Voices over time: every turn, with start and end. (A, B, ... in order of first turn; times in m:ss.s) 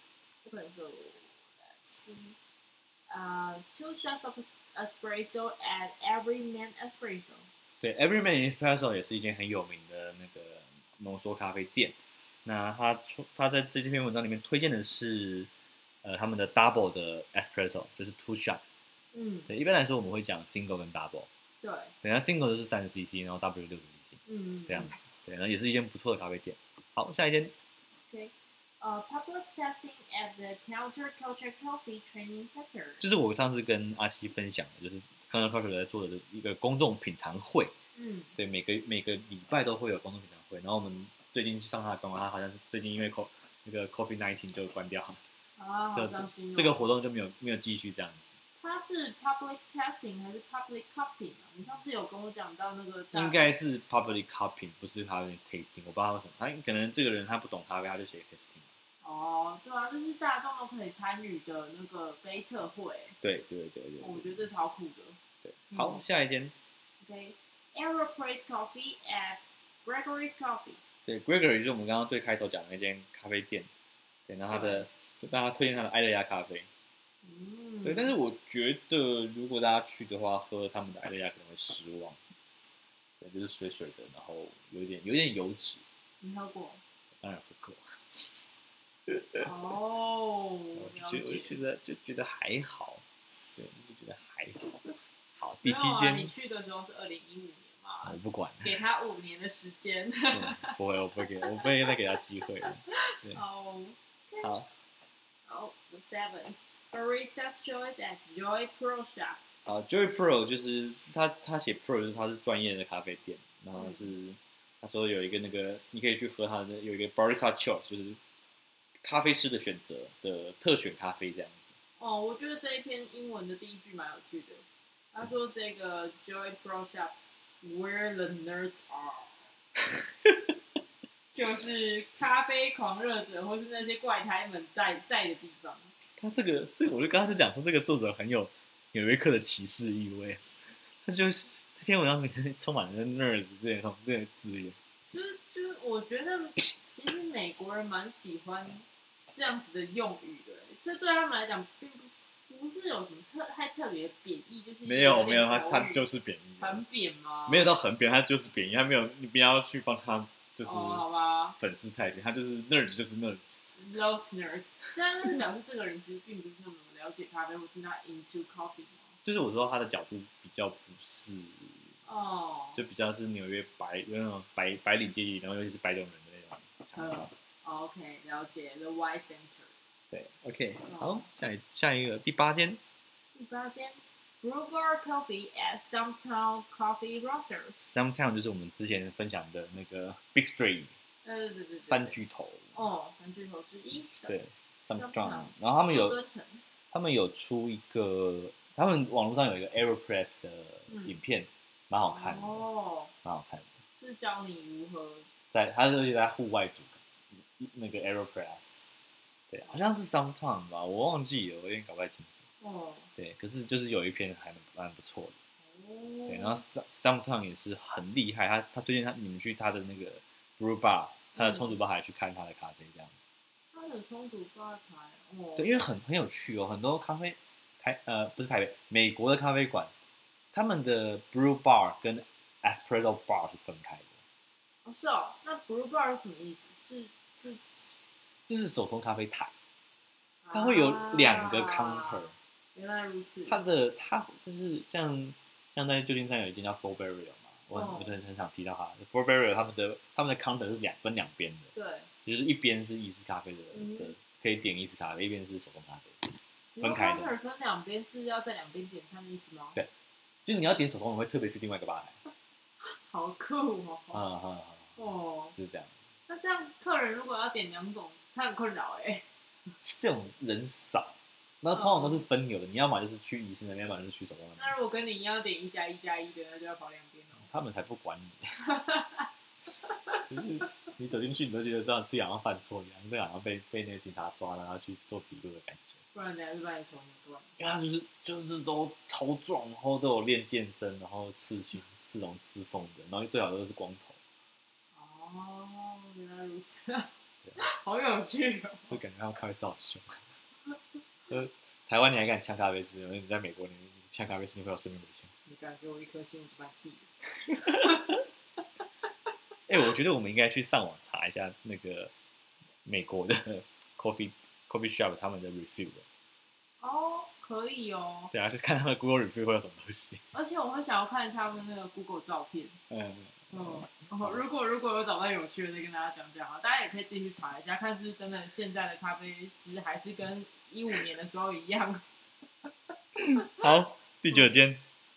0:00.4-0:02.4 A
0:03.1-0:07.5 A
0:07.8-0:15.5 B
0:16.0-0:18.6 B
0:19.1-0:19.5 A
0:19.5-0:21.3 B
0:21.6-0:21.9 A
0:22.0-0:27.5 B
0:24.3-0:25.0 A
0:28.1-0:33.0 A
0:33.0-0:37.7 B
0:38.0-0:38.3 A
0:38.4-0:45.2 B
0:45.6-0:46.9 A
0:45.9-0:48.4 B
0:48.6-0:53.5 A
0:53.1-0:58.7 B
0:59.0-1:03.2 A
1:03.2-1:04.4 B
1:04.0-1:05.2 A
1:05.4-1:06.5 B
1:05.7-1:06.0 A
1:07.0-1:10.8 A
1:11.1-1:13.7 B
1:14.3-1:16.7 B
1:14.5-1:14.9 A
1:17.2-1:18.1 A
1:17.8-1:22.2 B
1:23.2-1:25.8 B
1:26.2-1:26.8 A
1:27.2-1:28.4 B
1:29.1-1:29.5 B
1:29.4-1:31.6 A
1:30.8-1:33.0 B
1:33.6-1:36.3 B
1:35.6-1:40.8 A
1:38.0-1:38.8 B
1:40.3-1:43.4 B
1:41.4-1:44.5 A
1:44.4-1:44.7 B
1:45.5-1:49.4 A
1:49.7-1:58.2 B
1:53.8-1:54.1 A
1:59.0-2:01.7 B
2:02.0-2:09.5 A
2:10.2-2:10.5 B
2:11.3-2:15.9 A
2:16.2-2:20.5 B
2:21.0-2:24.8 B
2:25.1-2:36.0 A
2:34.8-2:36.8 B
2:36.6-2:37.7 A
2:37.5-2:43.6 B
2:40.6-2:41.6 A
2:43.8-2:49.2 A
2:49.2-2:52.0 B
2:52.0-2:52.8 A
2:52.8-2:57.3 B
2:57.0-2:59.7 A
3:00.1-3:02.8 B
3:00.9-3:01.3 A
3:03.4-3:07.9 A
3:07.8-3:10.9 B
3:11.2-3:12.2 A
3:11.9-3:12.7 B
3:12.7-3:14.4 A
3:14.3-3:16.2 B
3:15.0-3:16.6 A
3:16.9-3:22.6 B
3:20.9-3:21.2 A
3:22.0-3:23.1 A
3:23.2-3:23.7 B
3:24.0-3:25.3 A
3:25.5-3:28.7 B
3:29.5-3:32.4 B
3:32.6-3:33.1 A
3:33.2-3:35.4 B
3:35.6-3:36.6 A
3:36.3-3:43.1 B
3:41.4-3:41.7 A
3:43.7-3:45.8 A
3:45.6-3:49.9 B
3:50.5-3:54.1 B
3:54.8-3:57.9 A
3:58.5-3:59.5 B
4:00.4-4:03.6 A
4:00.5-4:02.3 B
4:03.5-4:11.7 B
4:07.7-4:08.2 A
4:11.7-4:12.1 A
4:12.2-4:17.3 B
4:13.7-4:14.2 A
4:16.8-4:19.8 A
4:20.4-4:22.2 B
4:22.8-4:24.2 A
4:24.1-4:25.0 B
4:25.0-4:25.6 A
4:25.6-4:25.9 B
4:26.3-4:29.2 A
4:29.8-4:34.8 B
4:31.8-4:32.2 A
4:34.6-4:37.5 A
4:37.4-4:38.6 B
4:38.6-4:39.3 A
4:39.8-4:40.3 A
4:40.3-4:46.0 B
4:46.1-4:47.5 A
4:47.6-4:54.2 B
4:55.0-4:59.0 A
4:58.9-5:00.2 B
5:01.3-5:05.3 B
5:05.5-5:08.2 A
5:09.7-5:12.1 B
5:12.8-5:16.0 B
5:16.8-5:18.3 A
5:18.3-5:20.2 B
5:20.3-5:22.8 A
5:22.9-5:24.4 B
5:23.5-5:32.0 A
5:33.2-5:34.8 B
5:33.3-5:33.7 A